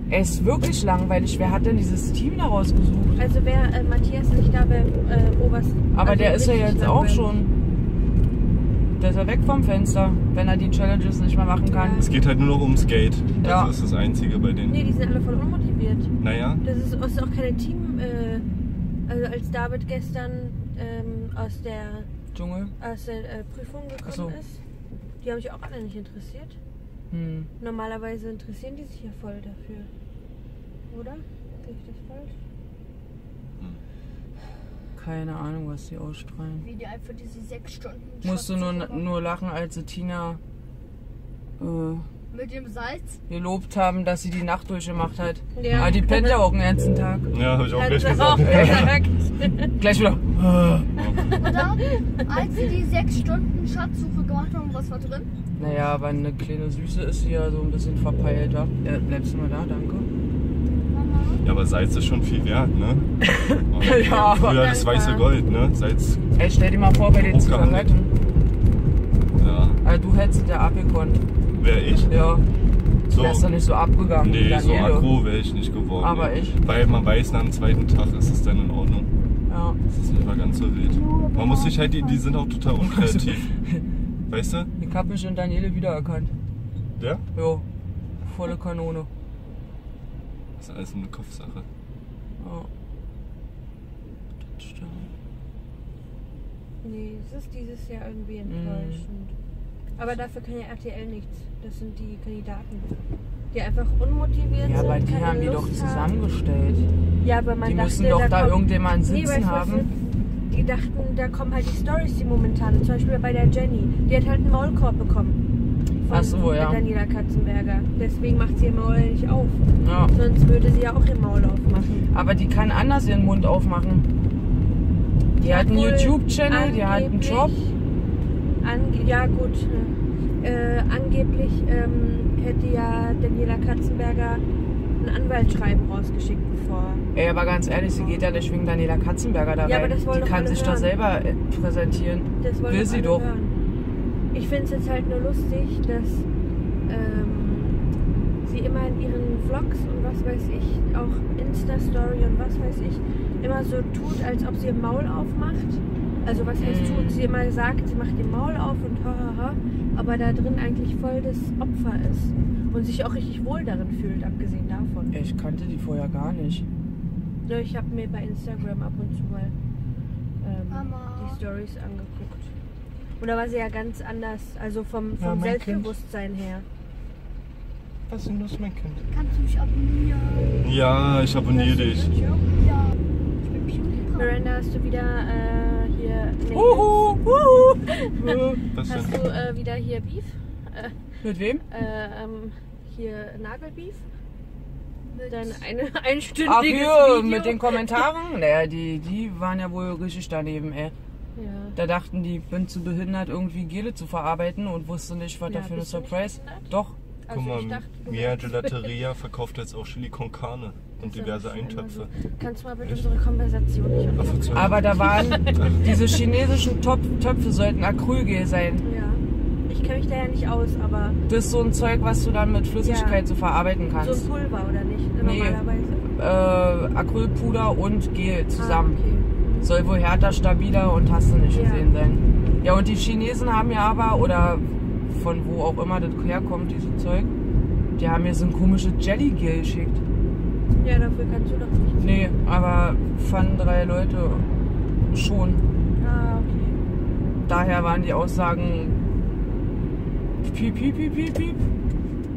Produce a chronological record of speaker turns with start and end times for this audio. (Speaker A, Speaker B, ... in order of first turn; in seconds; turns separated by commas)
Speaker A: 0.1-3.2, Speaker B: 3.2-7.4, Speaker A: 5.9-7.5, Speaker A: 9.0-12.1, Speaker B: 11.7-12.3, Speaker C: 12.0-14.8, Speaker A: 13.4-13.7, Speaker B: 14.7-16.1, Speaker C: 16.2-16.6, Speaker B: 16.6-18.4, Speaker B: 19.1-22.1, Speaker A: 22.3-22.7, Speaker B: 22.8-24.6, Speaker A: 24.1-24.4, Speaker B: 25.2-26.6, Speaker A: 27.1-27.5, Speaker B: 27.6-29.9, Speaker B: 30.9-32.3, Speaker A: 35.0-36.7, Speaker D: 36.6-39.1, Speaker A: 38.2-40.4, Speaker A: 41.6-42.0, Speaker D: 42.3-43.2, Speaker A: 43.3-47.3, Speaker B: 45.5-46.4, Speaker C: 45.6-46.0, Speaker C: 47.3-49.0, Speaker B: 47.7-49.7, Speaker A: 48.4-49.0, Speaker A: 49.8-50.3, Speaker C: 50.3-51.5, Speaker B: 51.1-51.9, Speaker D: 51.4-55.3, Speaker A: 55.6-60.1, Speaker D: 60.9-61.4, Speaker C: 61.4-63.1, Speaker A: 63.6-64.7, Speaker C: 63.7-66.2, Speaker B: 63.8-65.3, Speaker A: 66.4-68.1, Speaker C: 67.1-67.9, Speaker C: 69.4-69.8, Speaker A: 69.8-71.2, Speaker C: 71.6-72.2, Speaker A: 72.1-72.5, Speaker C: 73.1-73.4, Speaker A: 73.1-75.1, Speaker C: 74.2-79.1, Speaker A: 76.0-76.6, Speaker A: 79.5-79.8, Speaker C: 79.9-83.5, Speaker D: 80.9-82.3, Speaker A: 82.9-83.8, Speaker C: 84.3-84.7, Speaker A: 84.8-86.3, Speaker C: 87.0-87.2, Speaker A: 87.3-87.7, Speaker A: 88.2-89.1, Speaker C: 90.6-91.7, Speaker A: 92.4-92.7, Speaker A: 94.5-95.1, Speaker B: 96.8-99.3, Speaker A: 98.5-99.0, Speaker B: 100.0-102.9, Speaker B: 103.5-106.1, Speaker A: 104.6-106.9, Speaker B: 107.2-109.9, Speaker A: 107.6-109.9, Speaker B: 110.5-115.4, Speaker B: 116.0-122.1, Speaker A: 116.1-116.8, Speaker A: 119.8-120.1, Speaker A: 122.1-124.1, Speaker A: 125.4-127.5, Speaker B: 125.4-127.7, Speaker B: 128.6-134.4, Speaker B: 135.0-137.1, Speaker A: 137.2-143.3, Speaker B: 139.6-140.9, Speaker B: 142.4-143.6, Speaker B: 144.3-146.3, Speaker B: 146.9-147.8, Speaker B: 148.4-165.1, Speaker A: 156.6-157.3, Speaker A: 165.1-166.7, Speaker B: 167.5-169.5, Speaker B: 170.4-172.5, Speaker D: 170.7-171.4, Speaker B: 173.2-176.7, Speaker C: 175.2-175.9, Speaker C: 178.1-179.0, Speaker D: 179.1-180.7, Speaker C: 180.6-182.1, Speaker B: 181.4-182.4, Speaker D: 182.5-184.4, Speaker B: 184.2-187.2, Speaker A: 186.5-188.6, Speaker B: 187.9-191.0, Speaker C: 188.7-189.2, Speaker A: 191.2-191.6, Speaker B: 191.7-194.0, Speaker D: 195.1-195.6, Speaker B: 195.3-198.0, Speaker A: 196.4-200.9, Speaker B: 201.3-201.8, Speaker A: 201.8-207.0, Speaker B: 205.5-206.7, Speaker B: 207.3-208.9, Speaker C: 207.3-212.1, Speaker B: 211.0-216.1, Speaker C: 214.2-215.9, Speaker A: 214.5-218.8, Speaker B: 218.8-221.2, Speaker A: 221.3-224.2, Speaker B: 222.8-223.2, Speaker B: 224.0-226.1, Speaker A: 225.2-229.0, Speaker B: 228.6-229.7, Speaker A: 229.6-237.3, Speaker B: 231.5-231.9, Speaker A: 238.0-240.0, Speaker B: 240.8-242.2, Speaker A: 242.0-244.5, Speaker A: 245.1-245.6, Speaker B: 246.0-246.8, Speaker A: 247.5-249.0, Speaker A: 250.4-251.6